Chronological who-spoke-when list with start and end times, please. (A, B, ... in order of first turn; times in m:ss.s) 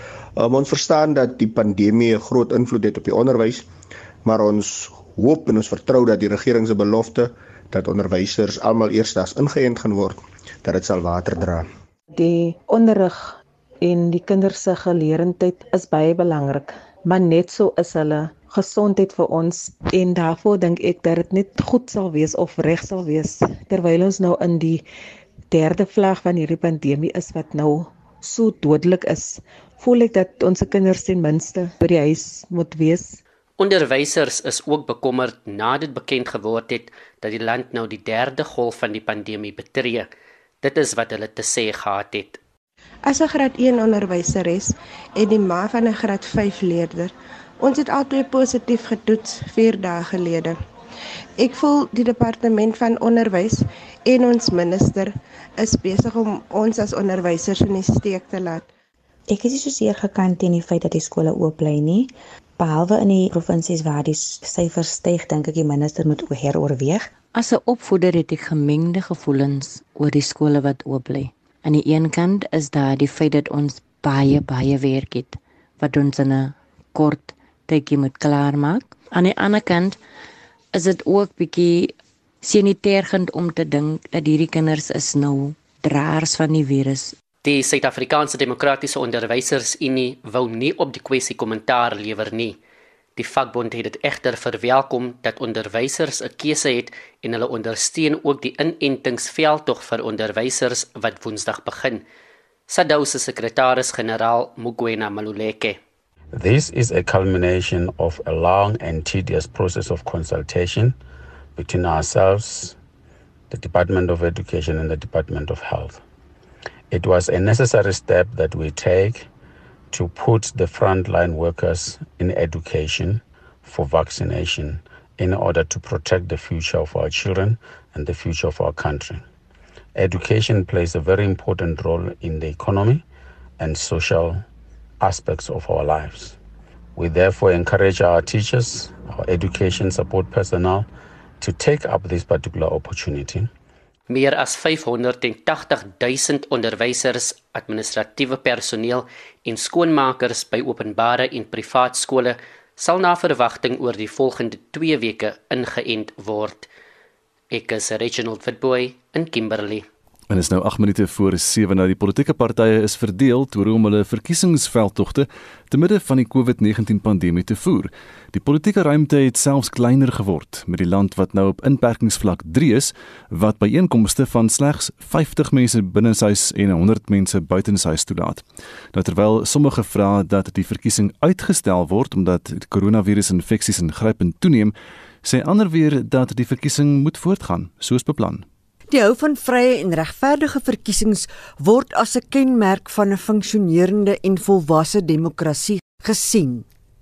0:00.4-0:03.7 A
0:04.3-0:11.7 A
0:12.1-0:24.8 B
0:25.5-0:33.2 B
0:33.6-0:40.1 C
0:40.6-0:42.4 C
0:43.1-0:50.6 D
0:51.4-0:58.7 D
0:59.4-1:02.1 E
1:02.6-1:07.0 E
1:07.3-1:20.0 F
1:20.7-1:27.2 F
1:27.4-1:32.6 C
1:33.2-1:42.0 C
1:42.7-1:45.8 C
1:46.3-1:51.0 G
1:51.6-1:52.8 G
1:53.5-1:56.0 G
1:56.9-1:59.3 G
1:59.9-2:09.2 G
2:10.0-2:13.0 G
2:13.6-2:14.4 G
2:15.0-2:16.4 G
2:17.0-2:20.9 G
2:21.4-2:23.5 G
2:24.1-2:36.7 C
2:37.5-2:39.8 C
2:40.3-2:58.4 H
2:58.9-3:08.4 H
3:08.9-3:16.7 I